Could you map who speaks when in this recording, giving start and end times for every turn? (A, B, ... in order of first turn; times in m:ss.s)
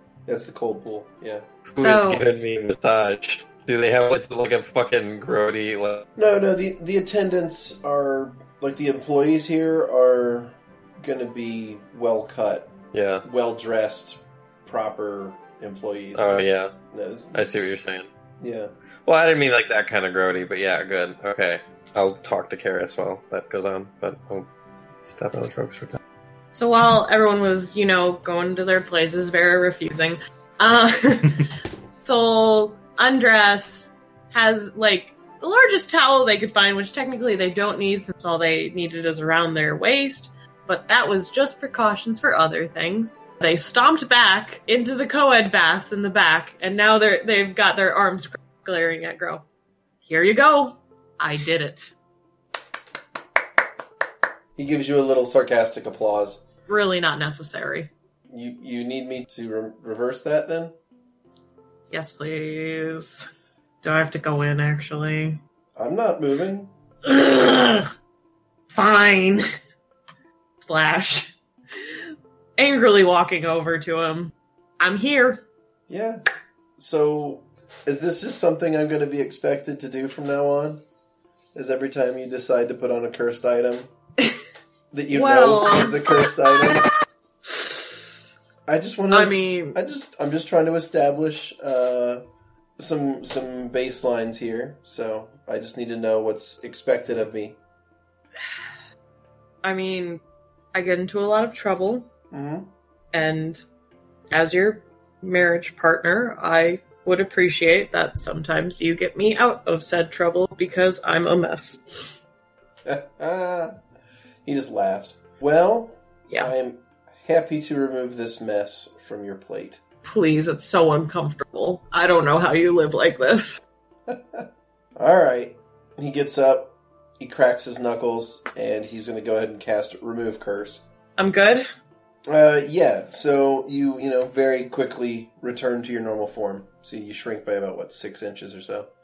0:00.3-0:01.4 A
0:01.7-0:06.1 B
0:01.8-0:02.2 C
0:06.2-0:12.7 A
0:12.9-0:13.2 B
0:13.2-0:17.8 A
0:16.2-0:16.7 B
0:17.3-0:18.1 B
0:18.4-0:18.7 A
0:19.1-0:24.5 B
0:25.0-0:26.0 B
0:26.5-0:31.5 C
0:32.0-0:49.4 C
0:50.0-0:51.9 C
0:54.6-0:56.4 A
0:56.7-0:57.9 C
0:58.3-1:00.8 A
1:01.9-1:03.3 C
1:03.8-1:05.4 C
1:05.8-1:06.7 A
1:07.0-1:07.9 C
1:08.7-1:09.5 C
1:10.6-1:15.4 C
1:15.9-1:16.2 A
1:16.8-1:20.8 A
1:21.5-1:23.9 A
1:24.9-1:26.9 A
1:25.1-1:26.9 C
1:28.7-1:32.2 A
1:29.1-1:29.8 C
1:32.8-1:37.6 A
1:39.6-1:40.2 C
1:40.7-1:42.1 C
1:42.3-1:42.7 A
1:43.1-1:43.6 C
1:44.3-1:52.2 C
1:52.8-1:53.8 A
1:54.4-1:59.8 A
2:00.0-2:03.6 C
2:04.1-2:10.8 A
2:11.2-2:11.7 C
2:12.3-2:18.9 A